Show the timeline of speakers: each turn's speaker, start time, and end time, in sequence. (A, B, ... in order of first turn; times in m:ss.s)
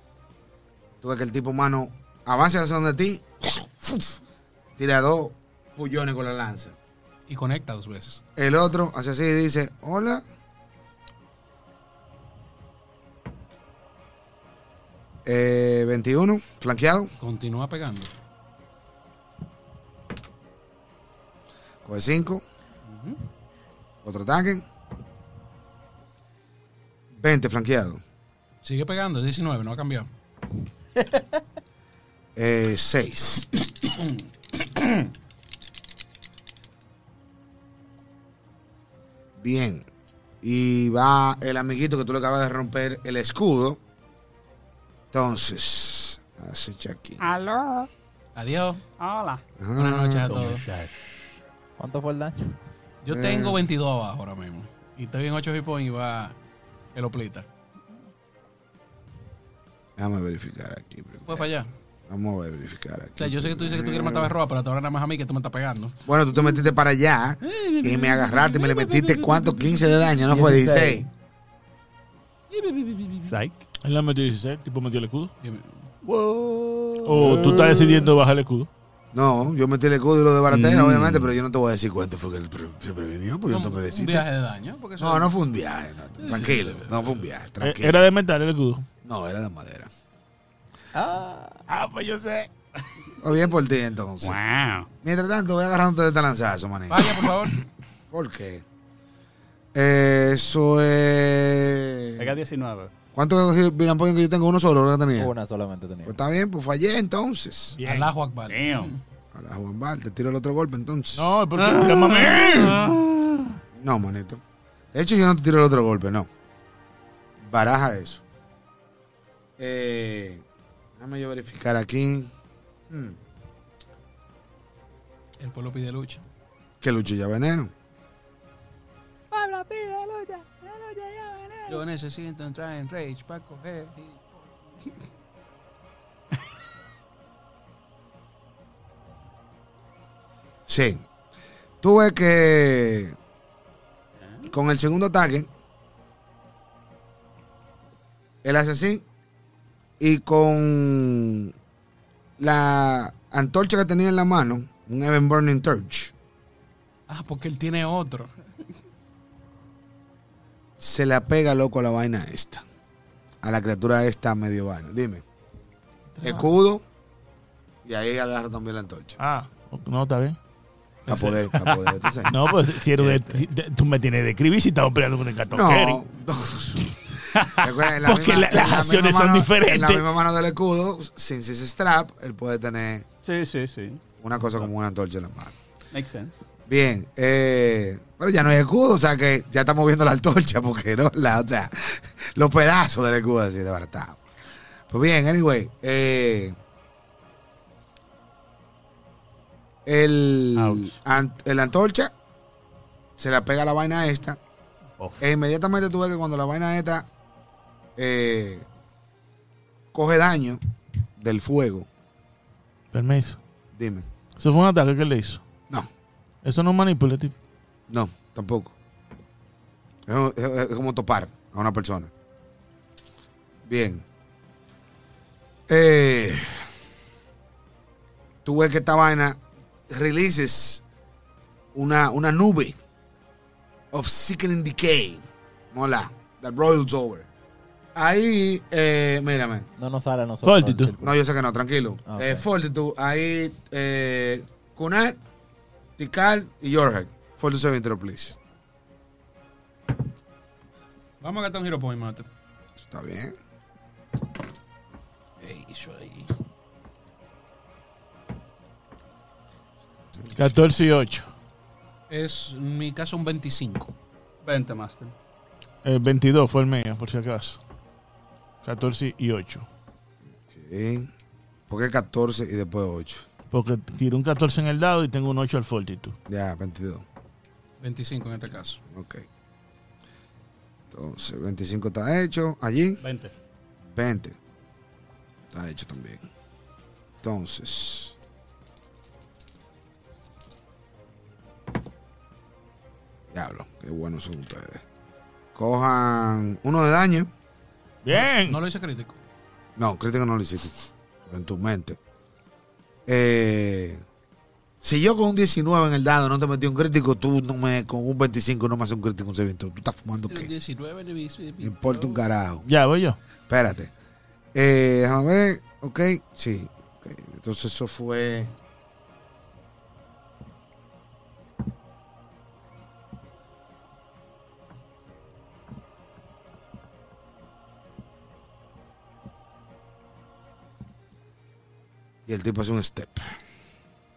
0:01.0-0:04.2 A
0:04.8-0:06.8 A
0:07.3-0:08.2 B
0:08.4-0:10.2 A
0:15.2-0:17.1 A
0:17.2-0:18.1 B
0:21.8-0:22.4 A
0:22.9-0:23.2 B
0:24.0-0:24.6 A
0:27.2-0:28.0 A
0:28.6-0:30.1 B
0:32.4-0:33.5 A
0:39.4-0:39.8 A
0:40.4-0:43.8 A
0:45.1-0:47.2 A
0:47.2-0:47.9 C
0:48.3-0:48.8 B
0:49.0-0:49.4 C
0:49.6-0:50.4 A
0:49.8-0:50.6 B
0:50.3-0:50.9 C
0:51.8-0:52.6 D
0:53.0-0:56.4 B
0:53.1-0:53.6 A
0:56.9-0:57.5 B
1:00.0-1:01.5 A
1:01.3-1:01.7 B
1:02.1-1:04.3 A
1:03.2-1:06.0 B
1:06.0-1:11.1 A
1:07.4-1:10.1 B
1:10.3-1:11.0 D
1:12.5-1:13.4 B
1:13.2-1:13.6 C
1:13.8-1:15.3 E
1:15.4-1:15.8 B
1:16.0-1:18.1 C
1:17.0-1:18.7 E
1:19.1-1:24.3 A
1:20.5-1:21.1 C
1:23.5-1:25.3 B
1:25.0-1:28.0 A
1:26.2-1:27.1 B
1:27.6-1:28.9 E
1:29.0-1:29.9 A
1:30.9-1:31.6 D
1:31.7-1:32.5 E
1:33.2-1:34.4 A
1:34.2-1:34.9 C
1:35.0-1:37.3 A
1:36.9-1:37.6 B
1:38.1-1:38.6 A
1:39.7-1:42.4 A
1:42.2-1:42.9 C
1:43.1-1:45.3 A
1:45.2-1:46.2 D
1:46.0-1:47.8 A
1:47.8-1:48.1 E
1:47.8-1:49.0 B
1:48.5-1:48.9 C
1:49.3-1:51.4 A
1:51.2-1:53.1 E
1:51.6-1:53.0 C
1:53.7-1:54.4 A
1:54.9-1:56.3 A
1:57.4-1:58.2 A
1:59.6-2:00.4 A
2:01.0-2:02.3 A
2:02.9-2:03.2 A
2:05.4-2:06.2 B
2:06.8-2:07.7 A
2:09.3-2:11.7 C
2:11.7-2:14.9 B
2:20.7-2:21.0 A
2:21.8-2:23.2 A
2:24.4-2:25.5 A
2:28.4-2:29.0 A
2:30.0-2:31.5 A
2:32.4-2:36.1 A
2:37.1-2:38.3 B
2:40.8-2:42.6 A
2:43.4-2:45.2 A
2:46.2-2:46.4 E
2:46.2-2:46.8 A
2:47.8-2:49.2 A
2:49.2-2:50.4 E
2:51.1-2:53.4 A
2:51.1-2:56.0 E
2:55.5-3:03.0 A
2:57.3-3:00.0 E
3:03.2-3:04.0 C
3:04.2-3:05.6 A
3:05.9-3:06.4 C
3:06.7-3:14.2 A
3:14.9-3:16.6 A
3:19.8-3:22.1 A
3:20.6-3:21.0 C
3:23.2-3:24.4 A
3:25.2-3:27.1 A
3:28.0-3:28.7 A
3:29.9-3:30.6 A
3:31.2-3:31.9 A
3:32.9-3:33.4 E
3:33.7-3:34.1 A
3:34.4-3:35.4 E
3:36.4-3:37.3 E
3:37.9-3:38.7 A
3:40.1-3:42.1 A
3:43.6-3:44.0 A
3:45.7-3:46.7 A
3:48.4-3:50.8 A
3:51.7-3:52.8 A
3:53.9-3:57.2 A
3:57.9-3:59.7 A
3:59.8-4:01.2 D
4:00.4-4:00.9 E
4:01.0-4:05.2 A
4:02.1-4:02.4 D
4:06.0-4:08.4 A
4:11.2-4:12.3 B
4:12.8-4:13.3 A
4:15.4-4:16.3 A
4:20.3-4:21.3 E
4:22.1-4:23.9 B
4:24.4-4:25.1 C
4:25.8-4:27.6 E
4:28.6-4:29.6 E
4:30.5-4:31.1 A
4:31.7-4:33.3 A
4:33.5-4:36.2 E
4:36.3-4:37.0 A
4:37.8-4:38.8 B
4:38.9-4:39.2 A
4:40.9-4:43.0 A
4:43.0-4:43.3 C
4:43.9-4:44.4 A
4:45.5-4:46.2 A
4:47.2-4:48.1 A
4:53.3-4:54.8 A
4:55.5-4:57.3 A
4:58.0-4:58.6 E
4:58.1-4:59.2 B
4:59.8-5:00.7 A
5:01.3-5:02.0 A
5:03.1-5:04.0 A
5:04.8-5:10.5 A
5:10.3-5:12.2 B
5:11.6-5:12.6 A
5:12.6-5:13.2 E
5:13.5-5:13.9 A
5:14.5-5:18.5 A
5:32.2-5:33.3 A